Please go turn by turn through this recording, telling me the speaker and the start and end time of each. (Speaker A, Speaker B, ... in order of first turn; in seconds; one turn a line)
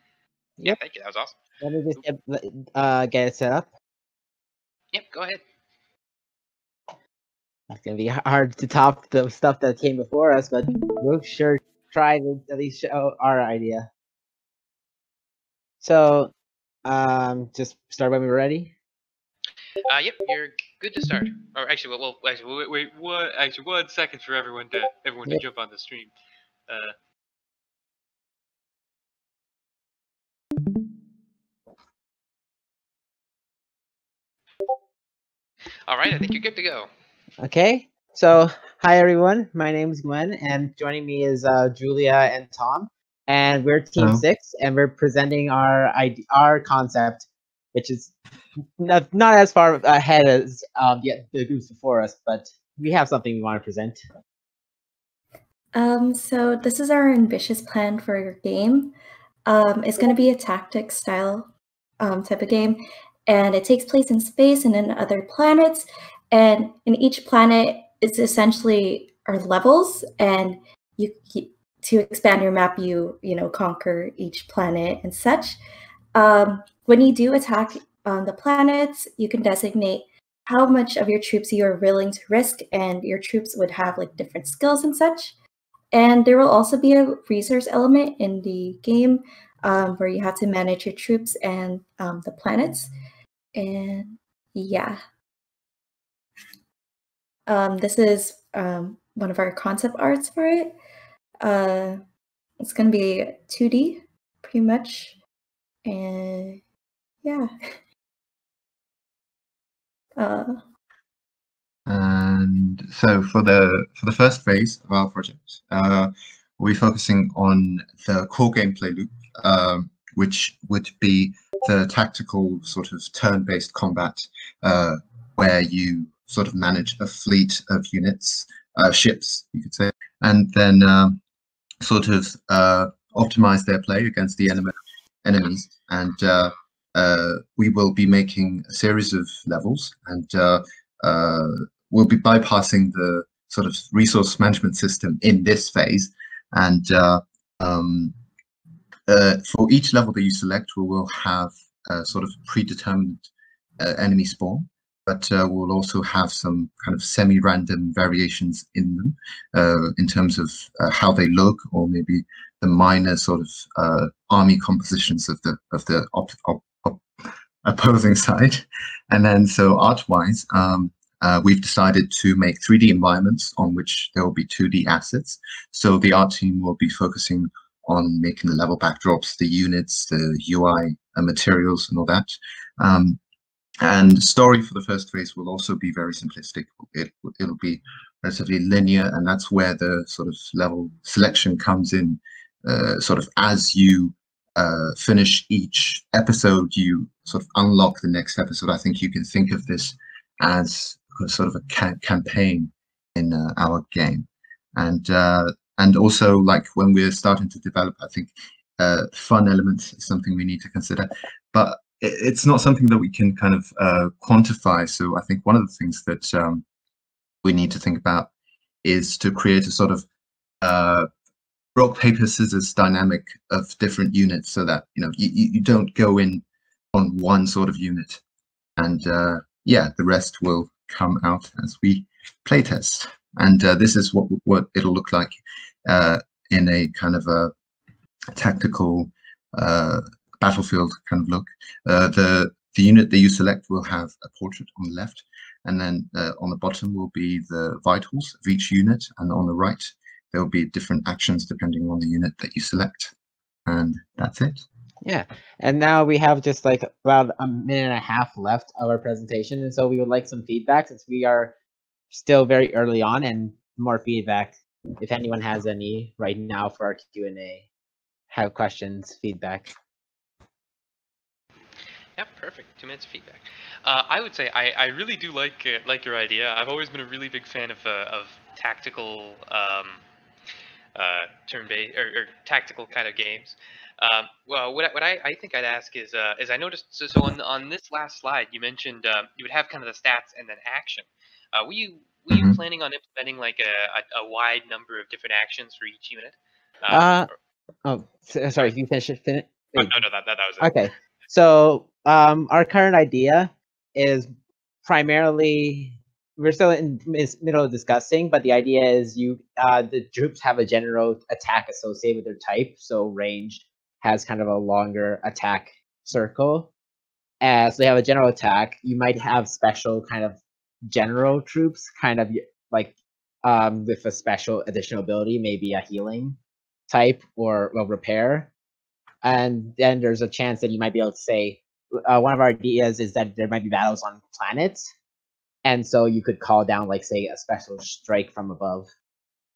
Speaker A: 0.6-1.4
Speaker B: 1.6-3.7
Speaker A: 4.9-5.4
Speaker B: 7.7-13.9
Speaker B: 15.8-16.3
Speaker B: 16.8-18.7
Speaker A: 19.9-26.1
Speaker A: 26.7-26.9
Speaker A: 35.9-36.9
Speaker B: 37.4-48.1
Speaker C: 44.0-44.2
Speaker B: 48.8-54.0
Speaker D: 55.7-58.9
Speaker D: 59.5-75.6
Speaker D: 76.1-85.3
Speaker D: 85.9-92.9
Speaker D: 93.5-95.0
Speaker D: 97.5-100.7
Speaker D: 101.4-102.0
Speaker D: 102.6-105.2
Speaker D: 105.8-106.6
Speaker D: 107.2-107.5
Speaker D: 110.2-110.6
Speaker C: 111.9-131.2
Speaker C: 131.8-134.7
Speaker C: 135.2-148.1
Speaker C: 149.1-153.3
Speaker C: 153.8-167.0
Speaker C: 167.6-183.2
Speaker C: 183.8-216.6
Speaker C: 217.4-218.3
Speaker C: 218.8-220.0
Speaker C: 220.6-221.1
Speaker C: 221.8-226.4
Speaker C: 226.9-228.2
Speaker C: 228.8-237.5
Speaker C: 238.3-253.1
Speaker C: 253.7-254.6
Speaker B: 255.0-261.5
Speaker B: 262.1-267.7
Speaker B: 268.3-269.7
Speaker A: 272.1-280.0
Speaker A: 280.9-297.2
Speaker C: 292.3-292.6
Speaker B: 296.9-297.3
Speaker B: 297.8-299.9
Speaker A: 299.7-300.8
Speaker B: 300.6-304.3
Speaker B: 304.8-316.7
Speaker B: 317.4-326.4
Speaker B: 326.9-328.5
Speaker B: 329.2-334.9
Speaker B: 335.6-338.9